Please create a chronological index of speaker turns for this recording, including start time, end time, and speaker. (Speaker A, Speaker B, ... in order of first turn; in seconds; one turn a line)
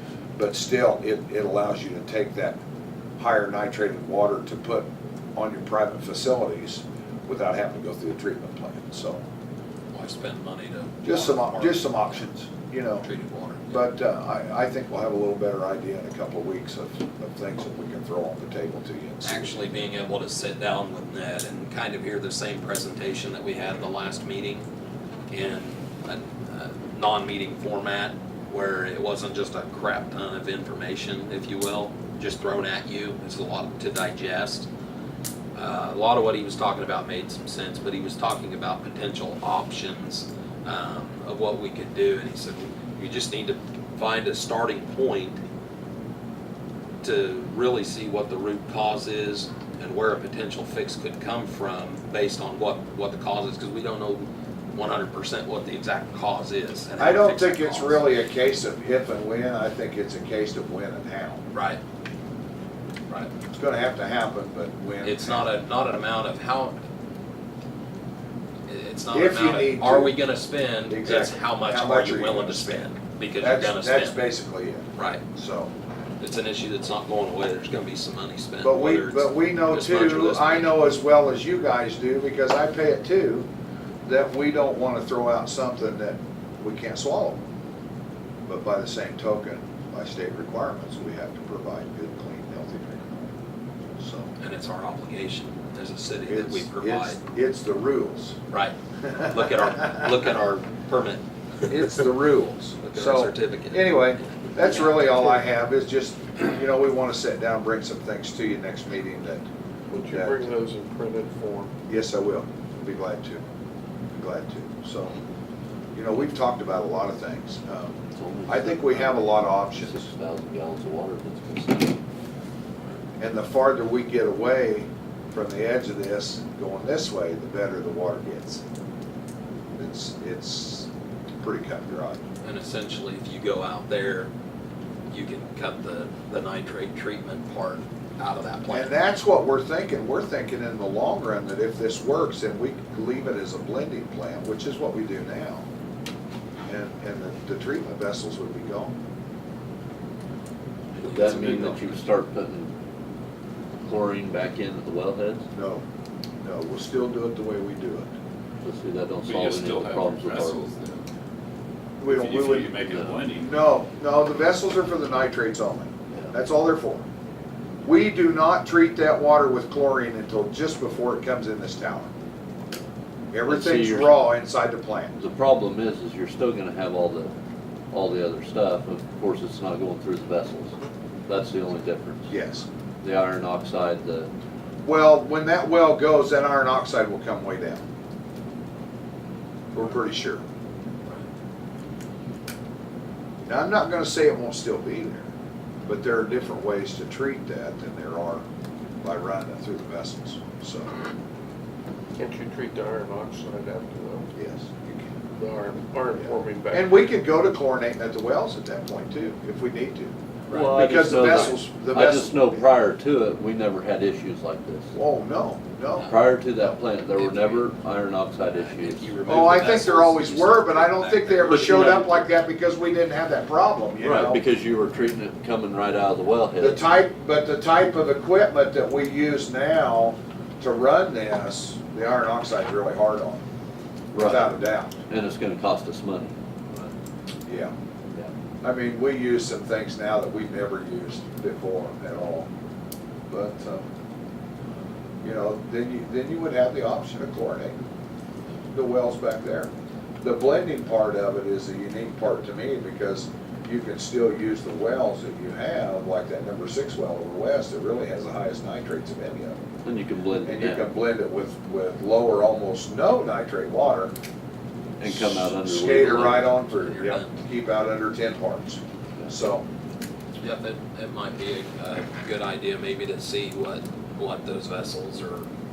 Speaker A: 0.4-2.6
Speaker A: 3.2-9.2
Speaker B: 9.9-12.3
Speaker A: 11.0-13.1
Speaker B: 13.0-13.8
Speaker A: 13.7-19.6
Speaker B: 19.2-24.7
Speaker B: 25.3-34.7
Speaker B: 35.5-45.4
Speaker B: 47.0-58.1
Speaker A: 57.0-61.4
Speaker B: 61.5-61.8
Speaker A: 63.5-65.5
Speaker B: 65.0-66.8
Speaker B: 68.7-74.2
Speaker A: 69.1-70.1
Speaker A: 70.9-75.7
Speaker B: 75.0-75.2
Speaker B: 76.2-80.7
Speaker A: 78.6-83.5
Speaker A: 84.1-87.4
Speaker A: 88.5-93.3
Speaker A: 94.0-94.3
Speaker B: 94.4-97.2
Speaker A: 96.3-98.4
Speaker B: 98.5-101.2
Speaker A: 101.7-109.5
Speaker B: 102.8-105.2
Speaker C: 109.9-111.8
Speaker A: 110.1-110.5
Speaker A: 111.9-113.4
Speaker A: 114.1-115.2
Speaker A: 116.0-118.0
Speaker D: 118.2-122.0
Speaker A: 118.5-120.0
Speaker A: 123.2-128.6
Speaker A: 129.8-130.9
Speaker A: 131.4-132.2
Speaker B: 132.4-134.3
Speaker B: 135.1-138.9
Speaker A: 138.7-145.7
Speaker A: 146.7-148.9
Speaker B: 150.9-152.0
Speaker D: 151.0-152.7
Speaker D: 153.8-155.4
Speaker A: 155.5-155.8
Speaker A: 156.4-158.1
Speaker D: 158.6-160.6
Speaker E: 159.2-161.0
Speaker A: 162.0-162.8
Speaker E: 162.1-163.5
Speaker A: 163.4-167.1
Speaker A: 167.8-172.1
Speaker A: 173.3-175.1
Speaker D: 173.5-174.2
Speaker D: 175.2-177.3
Speaker D: 177.9-180.8
Speaker D: 181.3-182.3
Speaker A: 182.3-182.7
Speaker D: 183.0-184.3
Speaker A: 184.8-187.8
Speaker A: 189.7-190.4
Speaker A: 193.4-195.3
Speaker A: 195.9-198.4
Speaker A: 199.0-200.9
Speaker C: 202.2-204.3
Speaker A: 204.3-205.2
Speaker C: 205.4-207.1
Speaker A: 206.7-212.7
Speaker C: 210.5-211.0
Speaker D: 210.6-214.9
Speaker A: 214.9-216.1
Speaker D: 216.1-219.1
Speaker B: 217.2-217.6
Speaker B: 218.5-222.3
Speaker A: 219.3-224.4
Speaker D: 224.0-226.8
Speaker A: 226.6-233.4
Speaker D: 234.1-234.5
Speaker A: 234.1-234.9
Speaker D: 235.1-236.3
Speaker A: 237.5-237.7
Speaker A: 238.6-242.5
Speaker A: 243.3-243.9
Speaker A: 245.2-247.8
Speaker A: 248.7-249.7
Speaker A: 250.2-259.6
Speaker D: 259.8-260.9
Speaker A: 260.4-264.1
Speaker D: 265.0-266.6
Speaker A: 265.0-269.6
Speaker B: 266.8-267.3
Speaker B: 270.4-275.5